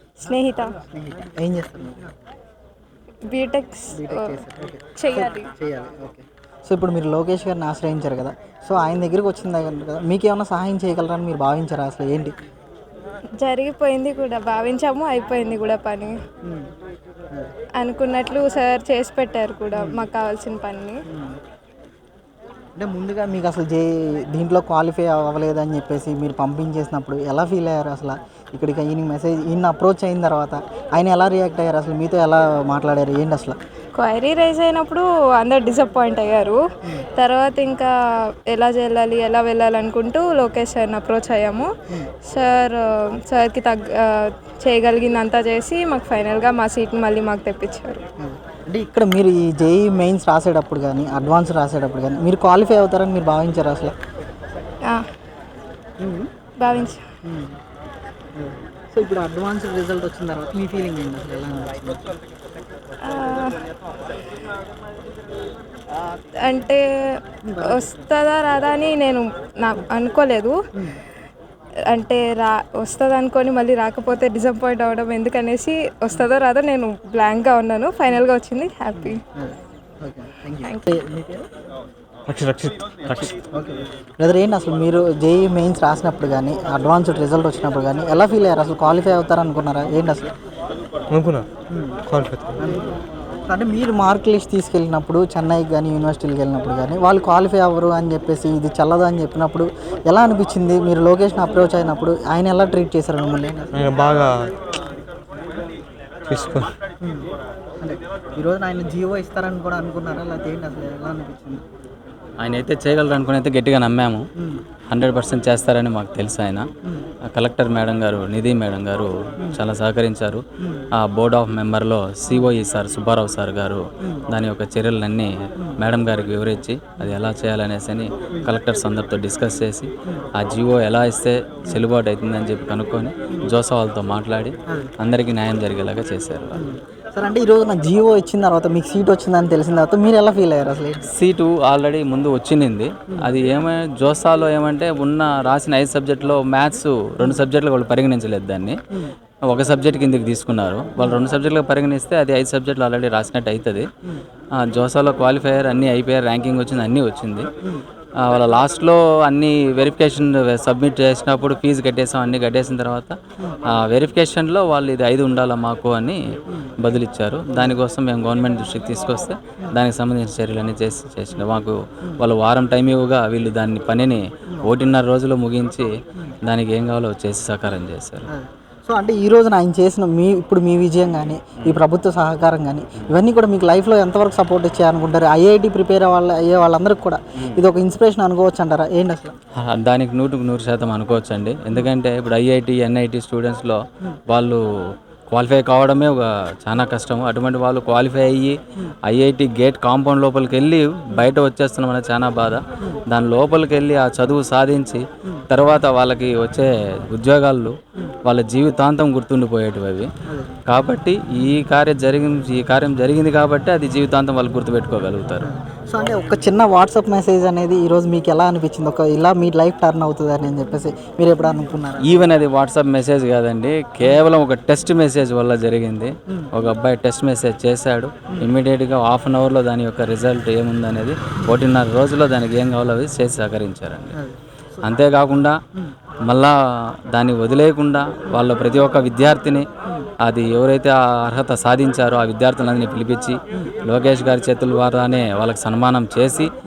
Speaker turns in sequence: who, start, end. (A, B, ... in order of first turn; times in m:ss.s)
0:00.2-0:00.7 A
0:00.9-0:02.1 B
0:03.3-0:04.4 A
0:03.9-0:12.4 B
0:05.0-0:05.5 A
0:13.4-0:16.2 A
0:16.4-0:16.7 B
0:17.8-0:21.0 A
0:19.7-0:20.1 B
0:21.1-0:21.4 B
0:22.8-0:33.6 B
0:34.0-0:36.6 A
0:37.2-0:37.9 A
0:38.5-0:41.7 A
0:42.2-0:48.0 A
0:48.2-0:53.9 B
0:56.0-0:57.6 B
0:56.6-0:57.0 A
0:58.4-1:02.0 B
1:03.0-1:03.6 A
1:06.4-1:06.8 A
1:07.4-1:08.0 B
1:07.6-1:10.6 A
1:11.9-1:19.2 A
1:18.9-1:21.4 B
1:20.6-1:21.0 A
1:22.3-1:23.4 C
1:23.5-1:30.3 B
1:31.1-1:31.5 C
1:31.7-1:32.0 B
1:32.1-1:32.6 C
1:32.6-1:32.9 B
1:33.5-1:43.7 B
1:43.7-1:44.5 C
1:46.3-1:46.7 C
1:47.0-1:47.3 B
1:47.8-1:51.6 B
1:52.4-1:54.2 D
1:54.9-1:56.6 D
1:57.3-2:00.4 D
2:01.0-2:05.3 D
2:02.3-2:02.5 B
2:05.8-2:16.6 D
2:16.5-2:21.1 B
2:21.2-2:28.8 D
2:23.1-2:23.3 B
2:29.5-2:33.8 D
2:31.0-2:31.2 B
2:34.6-2:37.5 D
2:38.2-2:43.1 D
2:43.9-2:46.2 D
2:46.8-2:55.9 D
2:47.4-2:47.8 B
2:54.5-2:54.8 B
2:56.4-2:58.3 D
2:58.2-3:09.3 B
3:09.7-3:13.8 D
3:14.3-3:14.6 D
3:15.3-3:18.6 D
3:19.1-3:22.6 D
3:23.1-3:27.7 D
3:28.3-3:30.1 D
3:30.7-3:35.4 D
3:35.4-3:42.4 B
3:42.1-3:54.1 D
3:48.3-3:48.5 B
3:54.1-3:55.1 B
3:54.9-3:55.5 D
3:56.3-3:56.5 D
3:57.1-3:59.6 D
4:00.2-4:03.4 D
4:03.9-4:06.5 D